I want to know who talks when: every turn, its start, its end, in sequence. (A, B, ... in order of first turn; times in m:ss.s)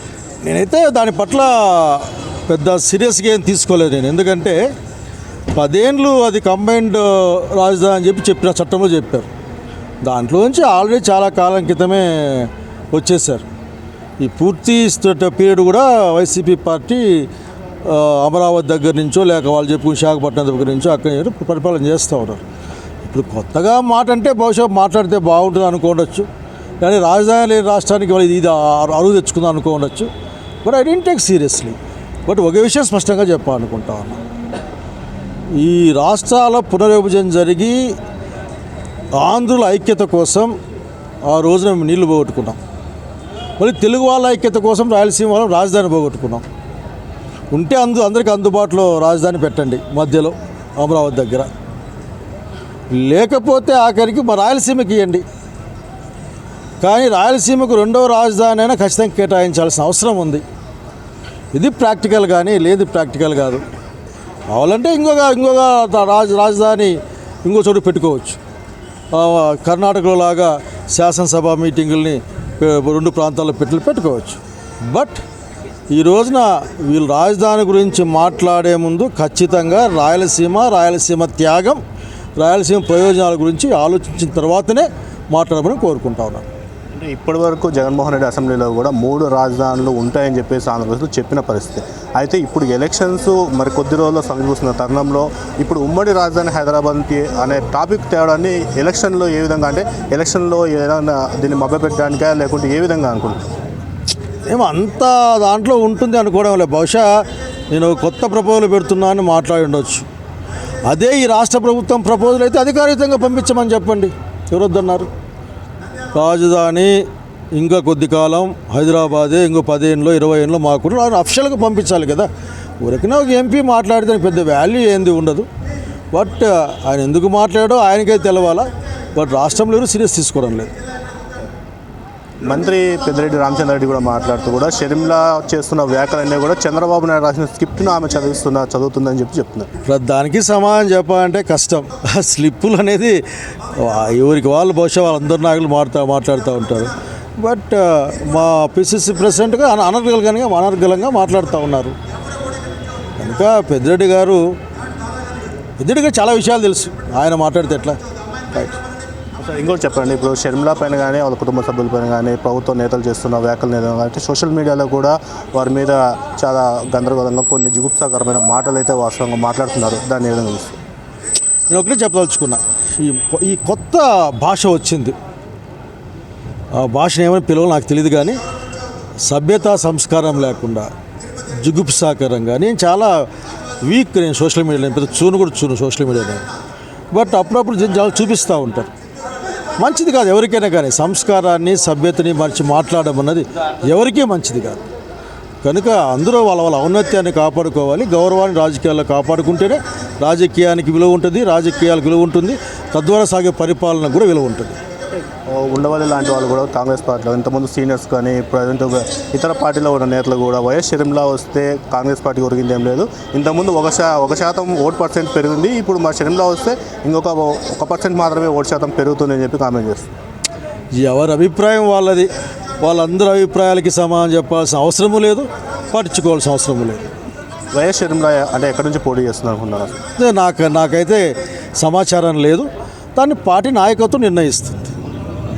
0:00.4-0:04.6 A
0:05.6-0:09.3 A
0:10.0-0:13.4 A
0:14.2-0:17.3 A
0:17.8-0:22.4 A
0:23.0-0:26.3 A
0:26.8-0:30.1 A
0:30.6-0:34.2 A
0:35.6-0:38.0 A
0:39.2-0:40.5 A
0:41.3-0:42.6 A
0:43.6-0:46.4 A
0:47.5-0:51.5 A
0:52.9-0:55.2 A
0:56.8-1:00.4 A
1:01.5-1:03.6 A
1:04.5-1:08.4 A
1:09.1-1:15.2 A
1:15.9-1:21.8 A
1:22.4-1:26.5 A
1:26.9-1:43.5 B
1:44.5-1:47.1 A
1:47.7-1:50.1 A
1:50.9-1:55.1 A
1:56.2-1:57.0 A
1:57.5-2:02.3 A
2:02.8-2:05.5 A
2:06.1-2:10.7 A
2:12.4-2:19.7 B
2:19.9-2:23.2 A
2:23.8-2:32.0 A
2:33.2-2:34.4 A
2:35.8-2:38.0 A
2:39.4-2:50.8 B
2:51.7-2:55.2 A
2:56.8-2:58.4 A
2:59.3-3:00.9 A
3:01.6-3:03.1 A
3:03.8-3:06.4 A
3:07.1-3:08.9 A
3:09.8-3:14.8 A
3:15.6-3:24.8 A
3:25.5-3:40.1 B
3:41.0-3:42.3 A
3:42.8-3:47.0 A
3:47.7-3:50.0 B
3:50.2-3:54.9 A